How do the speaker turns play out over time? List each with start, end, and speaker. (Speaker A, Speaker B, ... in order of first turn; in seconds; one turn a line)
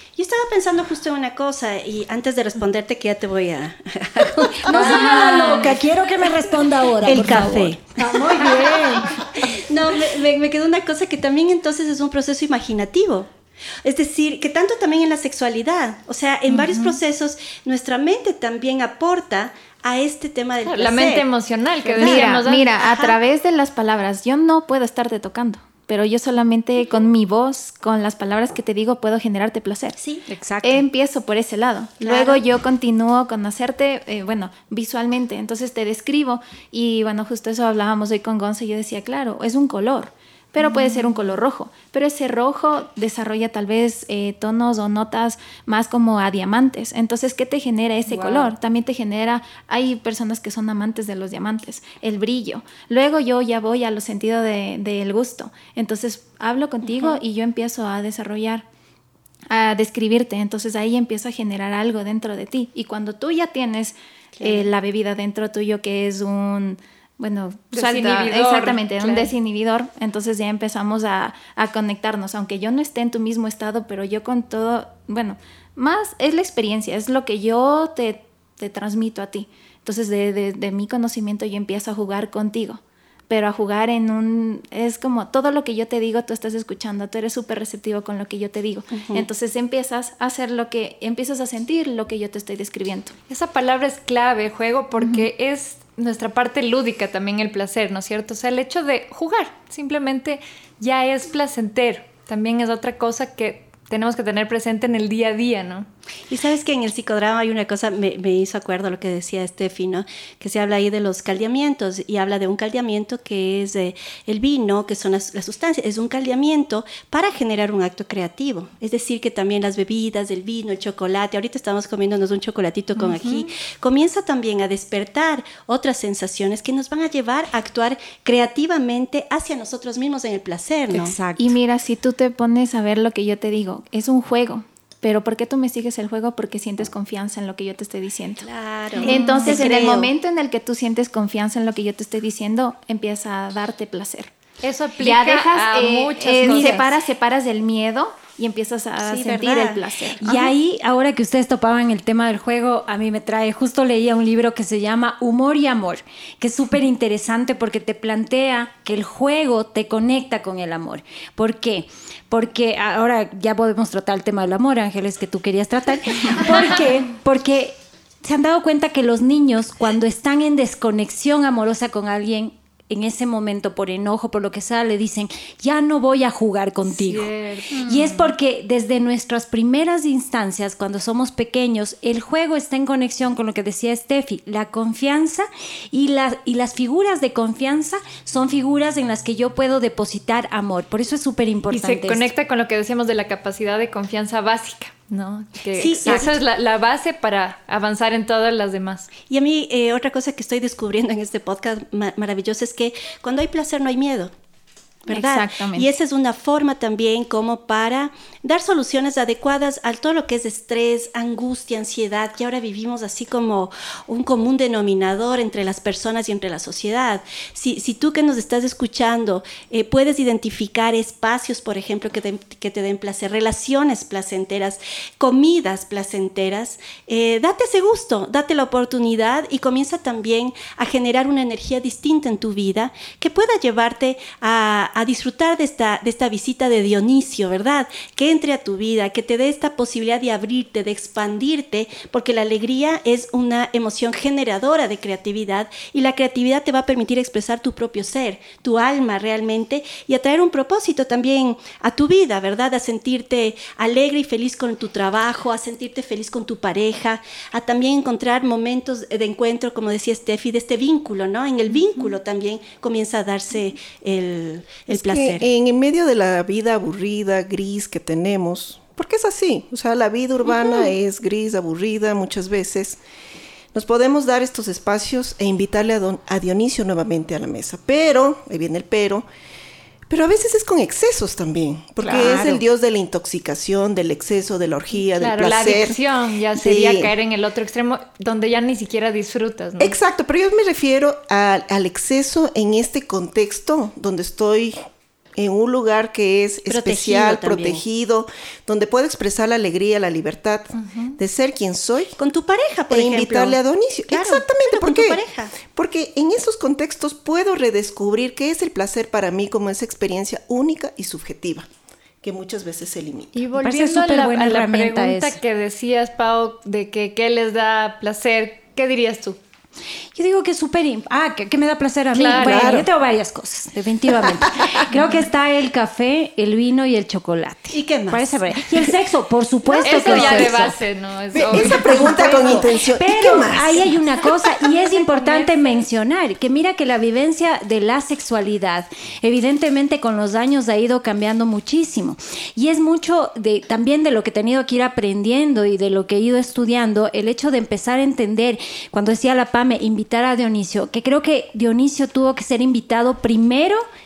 Speaker A: 0.1-5.8
Speaker B: 4.7-9.4
Speaker C: 4.8-5.6
Speaker A: 7.0-8.6
Speaker A: 9.4-13.3
Speaker A: 13.8-21.2
Speaker C: 20.6-22.8
Speaker A: 21.9-23.1
Speaker D: 22.0-30.0
Speaker B: 30.2-30.8
Speaker D: 30.6-58.6
Speaker A: 32.0-32.4
Speaker B: 48.1-48.5
Speaker A: 56.9-57.2
Speaker D: 59.5-93.1
Speaker A: 64.4-64.7
Speaker C: 67.7-69.3
Speaker A: 88.9-89.3
Speaker C: 93.3-105.9
Speaker A: 106.3-131.2
Speaker B: 130.9-131.6
Speaker D: 131.4-138.5
Speaker A: 138.4-140.1
Speaker C: 139.0-139.6
Speaker D: 139.0-144.3
Speaker C: 144.6-146.9
Speaker D: 145.0-150.5
Speaker A: 149.0-149.8
Speaker B: 150.2-192.3
Speaker C: 176.8-178.3
Speaker C: 191.7-199.1
Speaker A: 195.7-196.4
Speaker A: 199.2-204.3
Speaker A: 205.0-265.4
Speaker D: 205.1-205.9
Speaker E: 264.9-273.0
Speaker E: 273.7-279.2
Speaker E: 280.1-286.0
Speaker B: 282.0-282.6
Speaker C: 285.0-289.9
Speaker E: 286.5-287.1
Speaker E: 289.8-294.8
Speaker E: 295.4-302.2
Speaker A: 296.7-297.8
Speaker C: 300.8-301.1
Speaker A: 302.2-303.6
Speaker E: 302.9-311.7
Speaker A: 304.1-305.6
Speaker E: 312.2-313.4
Speaker C: 313.3-319.4
Speaker B: 313.5-315.4
Speaker B: 320.1-330.8
Speaker C: 322.1-322.8
Speaker E: 322.3-322.9
Speaker A: 327.7-328.4
Speaker C: 329.8-332.2
Speaker E: 329.9-330.6
Speaker E: 331.3-333.9
Speaker B: 331.5-353.8
Speaker A: 335.1-335.5